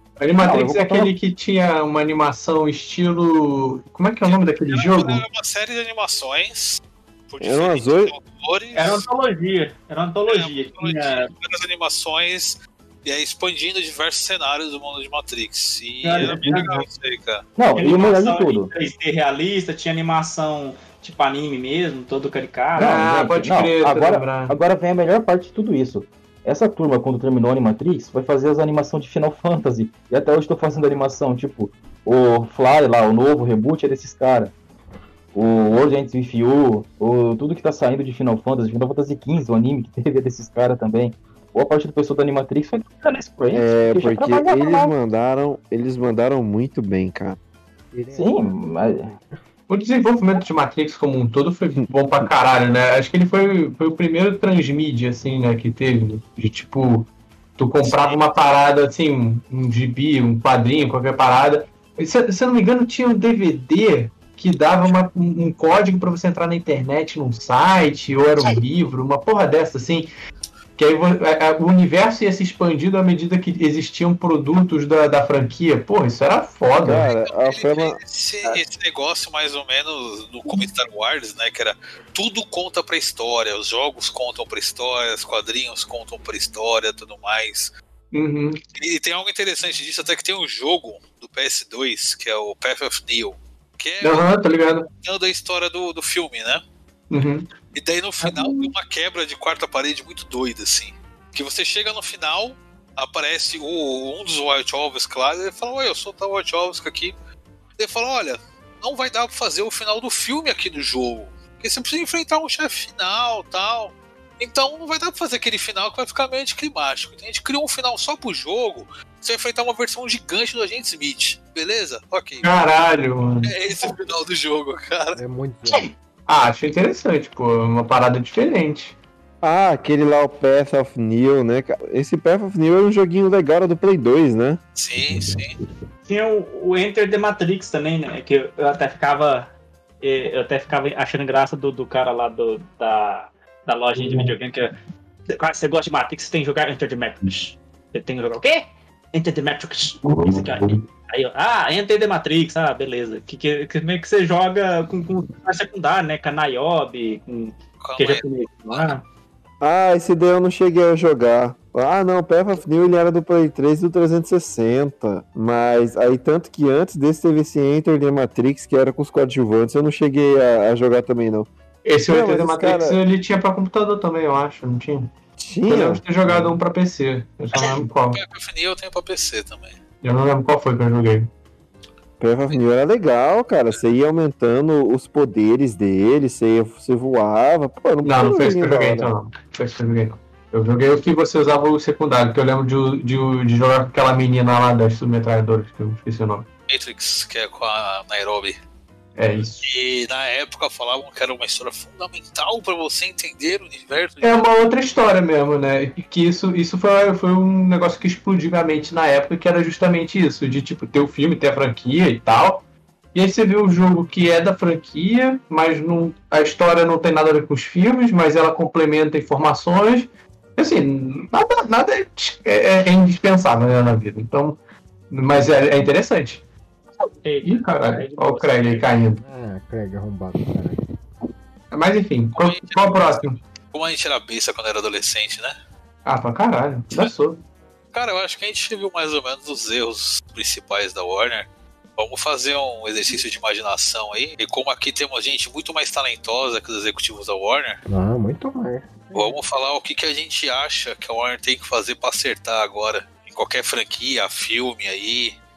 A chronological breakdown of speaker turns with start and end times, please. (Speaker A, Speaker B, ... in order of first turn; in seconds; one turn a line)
Speaker A: 0.2-5.2
Speaker B: 0.4-1.1
Speaker C: 4.2-9.0
Speaker D: 7.4-8.1
Speaker E: 8.7-11.3
Speaker C: 10.3-17.4
Speaker E: 16.0-16.4
Speaker B: 16.2-16.9
Speaker B: 17.6-18.7
Speaker E: 17.8-22.9
Speaker A: 22.8-24.5
Speaker B: 22.8-34.5
Speaker B: 35.3-43.6
Speaker E: 43.0-44.9
Speaker D: 43.5-47.4
Speaker F: 47.9-49.3
Speaker B: 48.1-49.1
Speaker A: 49.7-70.1
Speaker C: 57.8-58.2
Speaker A: 70.8-77.0
Speaker D: 76.8-78.0
Speaker C: 77.0-87.7
Speaker A: 88.1-88.6
Speaker C: 88.8-94.3
Speaker A: 94.0-94.9
Speaker C: 94.9-96.6
Speaker A: 97.1-97.5
Speaker C: 97.7-107.1
Speaker A: 98.2-98.6
Speaker C: 107.8-122.5
Speaker A: 122.4-123.5
Speaker C: 123.4-125.2
Speaker F: 125.2-125.9
Speaker A: 126.3-128.9
Speaker D: 129.4-134.6
Speaker C: 134.8-135.5
Speaker E: 136.1-144.7
Speaker E: 145.3-159.0
Speaker C: 157.8-158.9
Speaker D: 159.6-171.5
Speaker A: 171.8-175.1
Speaker D: 172.1-173.0
Speaker D: 175.4-176.6
Speaker A: 175.7-178.2
Speaker C: 177.5-179.8
Speaker A: 180.0-181.3
Speaker D: 182.2-189.1
Speaker A: 188.0-196.5
Speaker C: 196.7-198.6
Speaker A: 199.2-199.6
Speaker C: 199.6-204.5
Speaker A: 204.2-212.6
Speaker A: 213.1-224.6
Speaker A: 225.1-226.4
Speaker E: 227.0-228.9
Speaker A: 227.4-229.2
Speaker F: 229.2-230.8
Speaker A: 231.7-233.4
Speaker C: 232.3-235.6
Speaker A: 236.1-237.4
Speaker C: 237.9-247.8
Speaker F: 247.9-249.3
Speaker C: 249.1-255.4